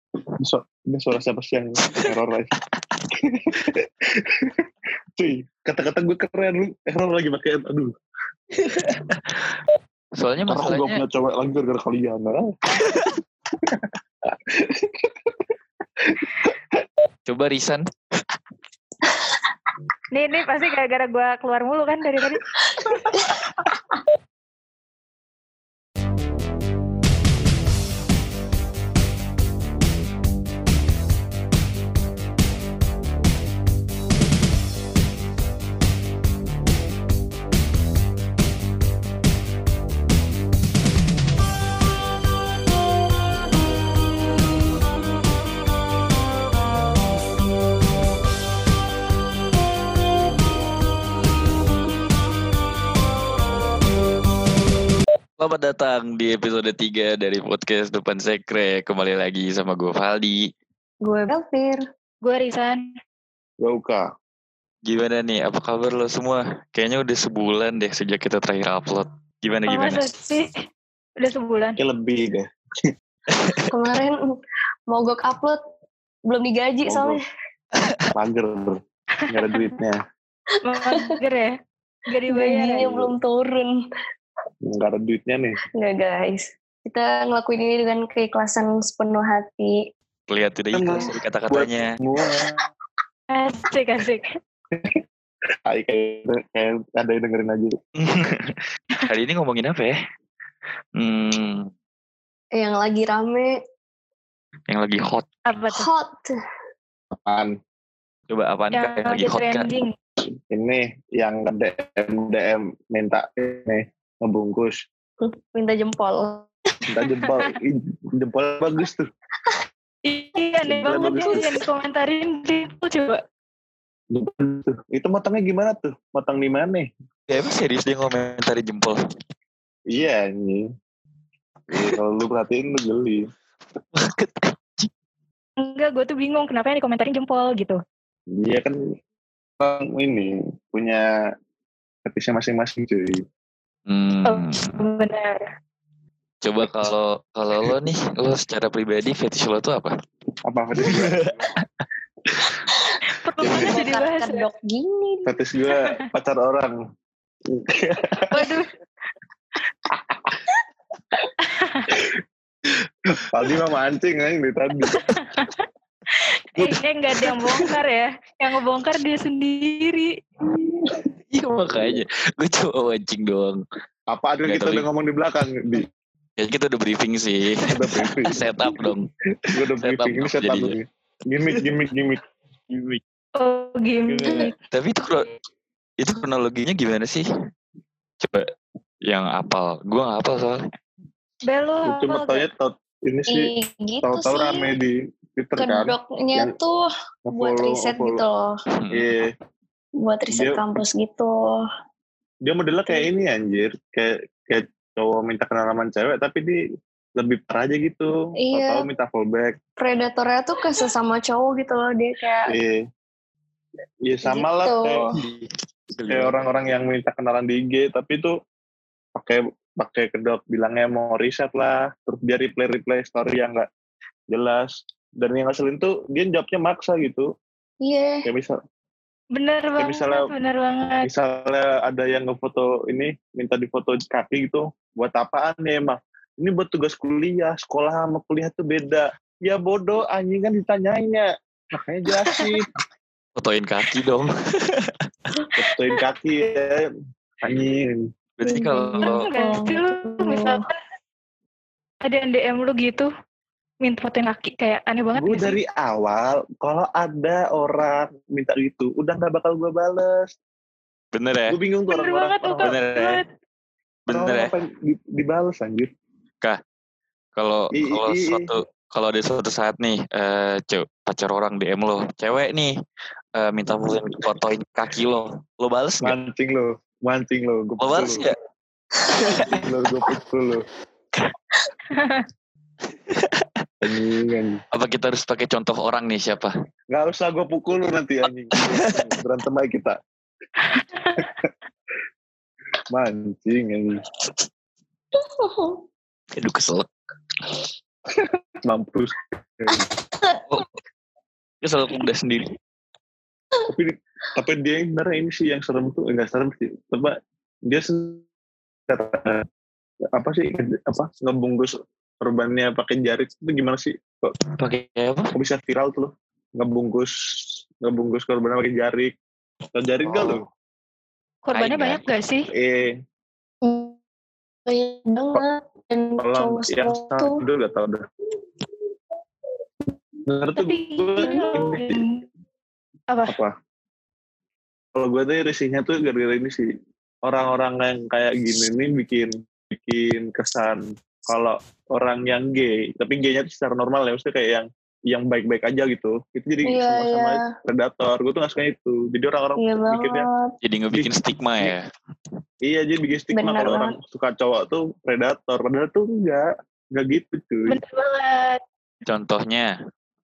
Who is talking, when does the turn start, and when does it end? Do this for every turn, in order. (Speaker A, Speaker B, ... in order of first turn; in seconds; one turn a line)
Speaker A: 0.4-2.5
Speaker A: 3.1-7.9
Speaker B: 8.7-9.6
Speaker B: 10.2-11.0
Speaker A: 10.5-15.3
Speaker B: 12.8-13.1
Speaker A: 16.0-16.8
Speaker B: 17.3-17.8
Speaker C: 20.1-22.5
Speaker D: 22.8-23.3
Speaker B: 55.4-60.5
Speaker D: 61.0-61.8
Speaker C: 62.2-62.9
Speaker A: 63.6-64.0
Speaker B: 64.8-70.0
Speaker C: 69.7-70.6
Speaker C: 71.2-71.8
Speaker A: 71.8-72.5
Speaker B: 73.3-73.6
Speaker D: 73.7-74.2
Speaker D: 74.9-75.6
Speaker D: 76.3-77.2
Speaker A: 76.8-77.2
Speaker B: 77.8-78.1
Speaker A: 78.1-80.0
Speaker C: 79.2-79.7
Speaker C: 80.6-81.5
Speaker D: 80.7-81.1
Speaker C: 82.1-82.9
Speaker D: 82.3-83.8
Speaker A: 82.8-83.1
Speaker A: 84.7-85.6
Speaker D: 85.8-89.8
Speaker B: 90.3-92.0
Speaker A: 90.7-92.5
Speaker C: 93.3-94.3
Speaker A: 94.7-95.0
Speaker A: 95.7-97.8
Speaker B: 98.0-99.9
Speaker B: 101.0-101.7
Speaker D: 102.5-103.5
Speaker B: 104.7-105.2
Speaker C: 105.5-105.9
Speaker D: 105.7-106.3
Speaker A: 107.1-107.5
Speaker B: 108.3-109.7
Speaker C: 108.7-109.9
Speaker A: 110.5-114.8
Speaker D: 115.2-116.5
Speaker A: 116.9-119.1
Speaker C: 120.0-123.2
Speaker A: 120.7-121.5
Speaker D: 120.9-121.5
Speaker A: 124.1-126.9
Speaker B: 127.3-129.0
Speaker A: 129.9-130.7
Speaker A: 131.7-133.2
Speaker B: 131.7-132.0
Speaker B: 133.9-134.9
Speaker C: 135.6-137.8
Speaker A: 138.4-138.8
Speaker A: 139.6-141.1
Speaker A: 142.0-143.2
Speaker B: 143.9-144.8
Speaker C: 144.2-145.4
Speaker B: 146.4-149.9
Speaker A: 150.5-151.4
Speaker B: 150.8-151.6
Speaker B: 152.3-152.6
Speaker D: 152.9-155.3
Speaker C: 153.2-154.4
Speaker A: 153.4-153.7
Speaker A: 155.2-156.8
Speaker A: 157.5-158.3
Speaker C: 158.3-158.7
Speaker A: 160.1-160.3
Speaker C: 161.4-161.9
Speaker A: 163.2-165.0
Speaker C: 164.9-165.7
Speaker C: 166.2-170.1
Speaker B: 166.6-167.7
Speaker A: 170.6-170.9
Speaker B: 171.3-173.6
Speaker A: 171.7-172.0
Speaker A: 174.1-175.9
Speaker B: 174.4-174.9
Speaker B: 176.4-179.1
Speaker A: 177.7-178.4
Speaker A: 179.4-182.2
Speaker B: 179.8-180.7
Speaker B: 182.7-183.0
Speaker C: 183.4-184.5
Speaker A: 184.1-184.5
Speaker B: 184.7-185.3
Speaker B: 186.0-187.2
Speaker B: 188.2-188.5
Speaker B: 189.0-190.6
Speaker C: 191.4-192.4
Speaker A: 191.8-193.5
Speaker D: 193.3-194.7
Speaker A: 194.0-196.5
Speaker D: 195.6-196.8
Speaker A: 197.3-198.2
Speaker D: 197.3-198.5
Speaker B: 198.8-199.1
Speaker A: 198.9-199.3
Speaker D: 200.0-201.3
Speaker A: 200.3-200.6
Speaker A: 202.4-206.6
Speaker A: 207.2-209.6
Speaker D: 208.4-208.8
Speaker D: 209.8-212.5
Speaker A: 212.5-212.8
Speaker A: 214.1-215.1
Speaker D: 214.2-215.1
Speaker B: 215.1-216.6
Speaker A: 216.1-218.3
Speaker A: 219.2-223.7
Speaker A: 224.3-227.3
Speaker D: 227.8-228.3
Speaker A: 228.2-228.6
Speaker C: 229.3-231.1
Speaker A: 229.8-230.3
Speaker A: 231.0-242.7
Speaker B: 243.4-244.9
Speaker A: 245.6-246.8
Speaker A: 247.4-248.0
Speaker B: 248.4-249.2
Speaker D: 248.4-250.6
Speaker C: 249.0-250.7
Speaker C: 252.0-253.1
Speaker C: 253.8-255.6
Speaker A: 255.1-260.4
Speaker B: 261.1-261.6
Speaker A: 261.5-262.8
Speaker C: 261.9-263.2
Speaker B: 262.6-263.2
Speaker B: 264.1-264.5
Speaker A: 264.1-265.9
Speaker B: 267.4-272.7
Speaker A: 267.7-268.5
Speaker B: 273.4-276.1
Speaker A: 276.0-278.3
Speaker B: 277.8-278.4
Speaker D: 279.1-279.5
Speaker B: 279.1-279.6
Speaker A: 279.6-280.6
Speaker C: 281.9-282.2
Speaker B: 283.1-283.6
Speaker A: 283.8-284.6
Speaker B: 284.7-286.5
Speaker A: 286.9-290.0
Speaker C: 290.7-291.2
Speaker A: 291.2-291.4
Speaker A: 292.9-294.0
Speaker D: 295.2-295.8
Speaker B: 296.4-296.9
Speaker A: 298.1-299.9
Speaker B: 301.6-302.6
Speaker A: 303.7-307.1
Speaker A: 307.7-308.2
Speaker A: 308.9-309.4
Speaker A: 310.1-314.3
Speaker B: 314.6-315.3
Speaker A: 315.3-319.1
Speaker A: 319.7-320.4
Speaker C: 321.4-322.4
Speaker B: 321.5-322.0
Speaker A: 322.5-323.0
Speaker D: 323.6-323.9
Speaker D: 324.7-327.4
Speaker A: 326.2-328.0
Speaker A: 330.2-332.0
Speaker C: 330.6-332.2
Speaker D: 331.2-331.5
Speaker A: 333.3-333.5
Speaker A: 334.9-336.7
Speaker A: 337.2-350.3
Speaker D: 346.6-347.5
Speaker D: 349.6-350.5
Speaker B: 350.6-351.9
Speaker A: 350.9-351.7
Speaker A: 352.6-357.8
Speaker D: 353.3-353.9
Speaker C: 357.7-358.6
Speaker B: 359.1-359.7